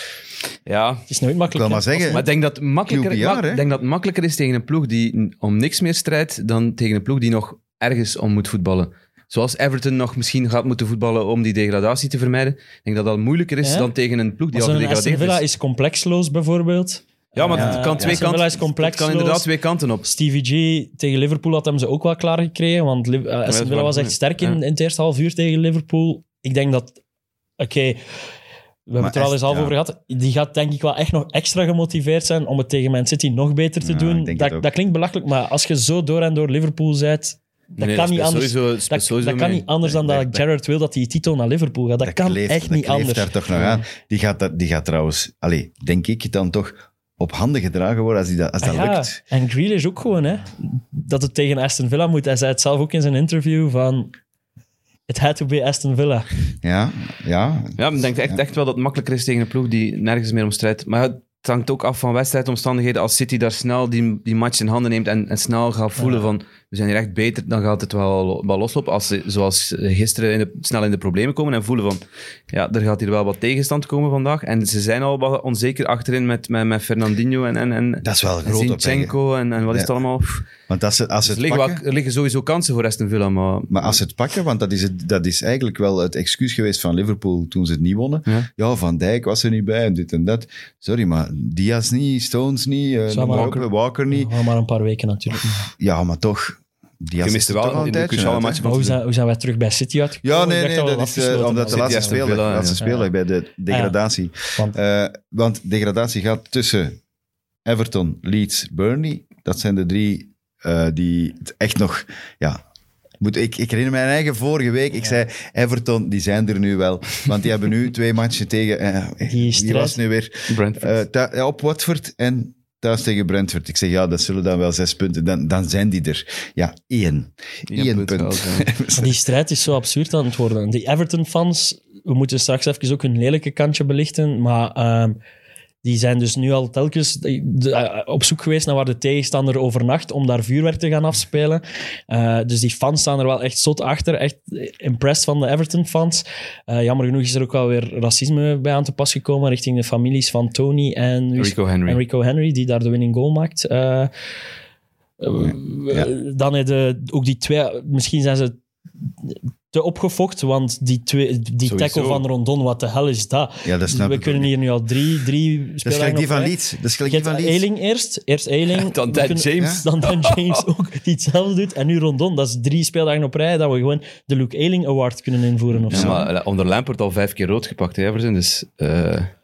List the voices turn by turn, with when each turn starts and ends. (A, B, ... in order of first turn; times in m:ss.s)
0:00.7-0:01.0 A
0:01.1-0:02.2 B
0:01.5-0:02.3 C
0:02.1-0:15.4 A
0:02.9-0:03.6 C
0:13.6-0:13.9 B
0:14.5-0:19.5 B
0:17.4-0:20.1 A
0:17.5-0:18.2 C
0:20.1-0:27.0 B
0:23.5-0:24.6 A
0:27.6-0:28.0 B
0:28.9-0:43.8 B
0:29.0-0:29.8 C
0:33.8-0:34.7 C
0:37.8-0:39.7 A
0:40.0-0:40.4 C
0:42.0-0:49.2 C
0:48.6-0:54.1 B
0:55.1-0:56.3 B
0:56.6-0:57.8 C
0:57.8-1:20.5 A
1:06.0-1:06.3 B
1:18.0-1:19.2 C
1:20.7-1:21.8 C
1:21.3-1:24.0 A
1:23.7-1:34.3 C
1:33.1-1:35.7 B
1:35.8-1:38.6 C
1:37.2-1:39.0 A
1:38.6-1:43.1 B
1:40.2-1:47.0 C
1:41.7-1:42.8 A
1:43.7-1:44.0 B
1:47.6-1:52.6 C
1:53.2-2:09.2 C
1:59.3-2:00.0 B
2:00.5-2:01.0 A
2:07.7-2:08.7 A
2:09.0-2:15.2 B
2:15.8-2:34.1 B
2:31.4-2:32.0 A
2:35.2-2:38.6 B
2:39.2-2:56.3 B
2:41.6-2:42.2 A
2:43.6-2:44.5 C
2:45.8-2:47.6 C
2:48.8-2:50.6 A
2:55.9-2:59.3 A
2:55.9-2:56.2 C